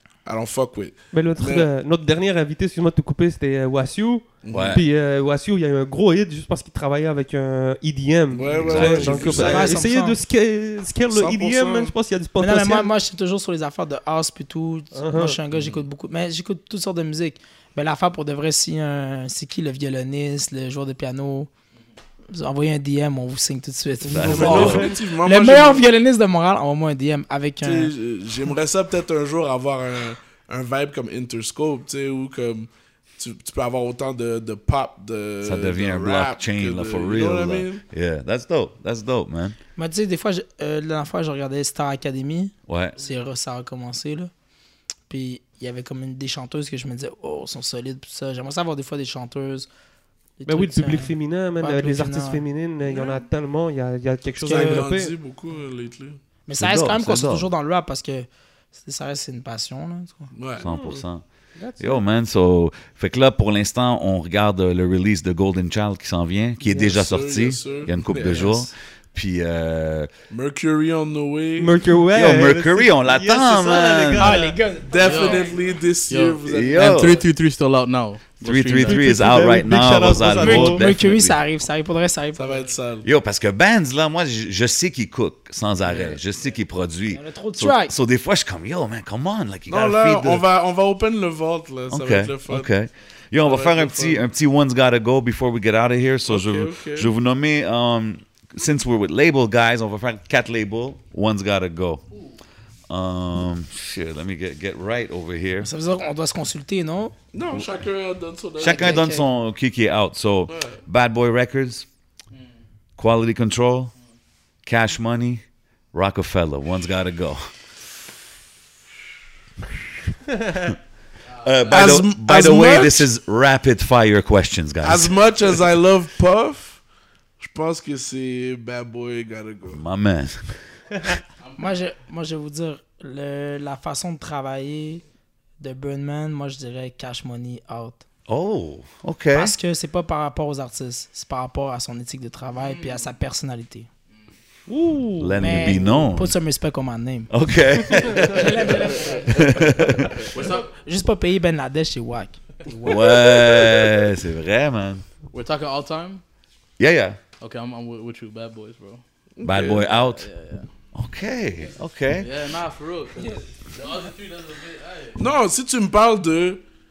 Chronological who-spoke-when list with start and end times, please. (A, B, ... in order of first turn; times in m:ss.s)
0:00.2-0:01.7 A
0:01.1-0:12.9 B
0:04.4-0:04.8 A
0:04.5-0:04.8 C
0:08.3-0:09.7 A
0:08.6-0:09.8 C
0:09.2-0:10.2 D
0:11.1-0:11.9 A
0:12.4-0:21.5 D
0:14.9-0:15.4 B
0:22.3-0:27.9 D
0:24.0-0:24.9 B
0:24.1-0:24.9 C
0:24.2-0:25.9 A
0:27.6-0:37.8 A
0:35.4-0:39.6 C
0:39.8-0:44.3 D
0:42.7-0:43.0 C
0:45.1-0:49.7 D
0:50.4-0:52.4 D
0:50.5-0:55.1 B
0:54.4-0:54.9 D
0:54.4-0:56.2 A
0:56.4-1:00.3 D
0:56.6-0:57.5 C
1:00.3-1:00.6 A
1:00.6-1:01.0 B
1:00.6-1:01.2 C
1:01.6-1:02.0 B
1:01.8-1:10.1 C
1:06.6-1:06.9 B
1:06.8-1:08.7 A
1:10.3-1:11.8 A
1:11.6-1:14.6 B
1:12.1-1:14.4 C
1:14.2-1:15.5 D
1:14.8-1:17.2 A
1:15.0-1:15.5 E
1:16.1-1:19.4 E
1:16.4-1:17.2 C
1:18.4-1:21.4 C
1:18.8-1:20.9 B
1:20.3-1:22.7 D
1:22.4-1:23.1 A
1:23.0-1:30.4 C
1:25.8-1:26.2 A
1:27.1-1:27.9 D
1:29.7-1:32.7 A
1:31.9-1:42.1 C
1:33.4-1:34.2 A
1:36.2-1:37.1 A
1:42.9-1:45.7 C
1:45.6-1:47.2 D
1:47.3-1:49.0 A
1:48.6-1:51.9 C
1:48.6-1:49.2 D
1:50.5-1:50.8 A
1:53.0-1:53.9 C
1:54.6-1:57.5 C
2:00.3-2:00.7 B
2:01.3-2:02.0 E
2:01.4-2:05.2 C
2:01.7-2:03.1 A
2:04.8-2:06.8 A
2:07.4-2:09.8 A
2:09.7-2:11.2 C
2:11.4-2:11.7 E
2:11.6-2:15.0 D
2:15.6-2:18.0 D
2:18.3-2:19.5 C
2:19.3-2:23.9 D
2:22.6-2:23.0 E
2:24.7-2:25.9 B
2:25.2-2:26.3 C
2:25.4-2:27.3 D
2:27.3-2:30.2 C
2:28.1-2:29.6 D
2:28.9-2:30.7 E
2:30.3-2:33.2 D
2:32.8-2:35.0 C
2:35.3-2:36.2 E
2:36.8-2:37.2 C
2:37.4-2:39.0 E
2:39.4-2:39.9 A
2:39.4-2:40.3 C
2:39.7-2:40.7 E
2:40.9-2:42.3 C
2:41.7-2:45.2 E
2:45.2-2:46.6 A